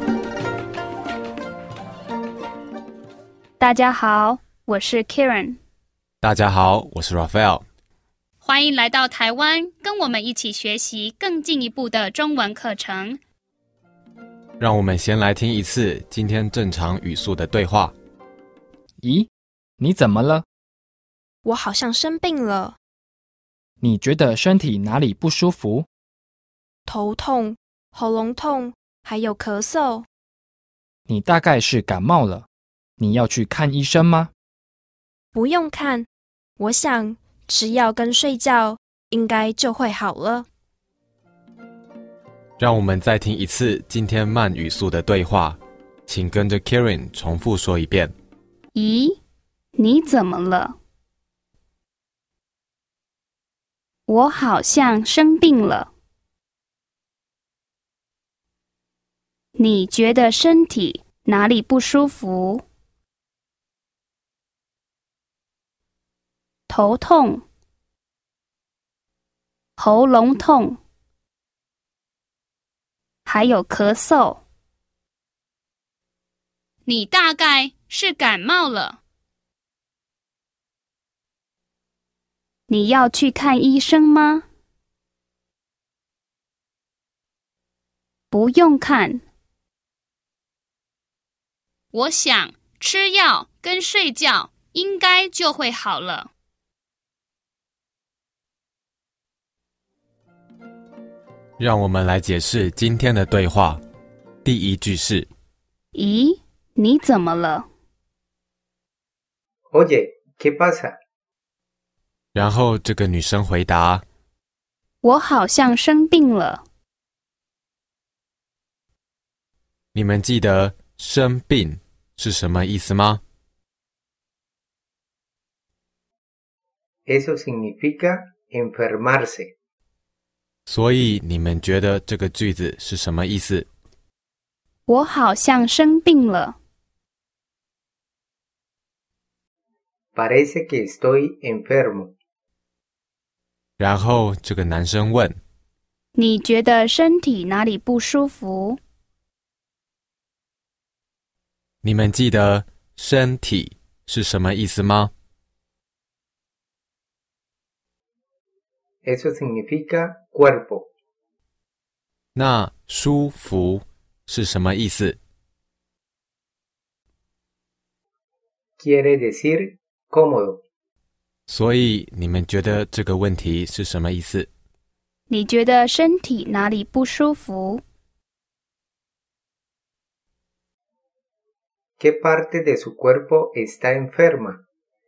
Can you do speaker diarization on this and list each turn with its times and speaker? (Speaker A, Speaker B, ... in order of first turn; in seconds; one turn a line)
Speaker A: 3.6-5.6
Speaker B: 6.2-7.6
Speaker A: 8.4-13.2
Speaker B: 14.6-17.9
Speaker C: 19.0-20.4
Speaker D: 21.4-22.8
Speaker C: 23.8-25.9
Speaker D: 26.9-30.1
Speaker C: 31.1-32.5
Speaker C: 33.0-34.3
Speaker D: 35.4-36.1
Speaker D: 36.6-40.5
Speaker B: 42.6-48.1
Speaker A: 48.7-49.2
Speaker A: 49.8-50.8
Speaker A: 54.1-55.9
Speaker A: 59.6-62.6
Speaker A: 66.7-67.4
Speaker A: 69.8-70.8
Speaker A: 73.3-74.4
Speaker A: 76.9-79.0
Speaker A: 82.7-84.5
Speaker A: 88.3-89.2
Speaker A: 91.9-96.3
Speaker B: 101.6-103.8
Speaker B: 104.4-105.3
Speaker A: 105.9-107.7
Speaker E: 109.7-111.0
Speaker B: 112.3-114.0
Speaker A: 115.0-116.6
Speaker B: 119.9-123.2
Speaker E: 127.1-129.5
Speaker B: 130.7-133.7
Speaker A: 134.9-136.6
Speaker E: 140.2-142.2
Speaker B: 143.8-145.4
Speaker A: 146.2-148.8
Speaker B: 151.8-155.1
Speaker E: 159.0-160.9
Speaker B: 162.3-165.2
Speaker E: 168.8-170.6
Speaker B: 171.5-174.5
Speaker A: 175.3-177.8
Speaker E: 182.0-184.6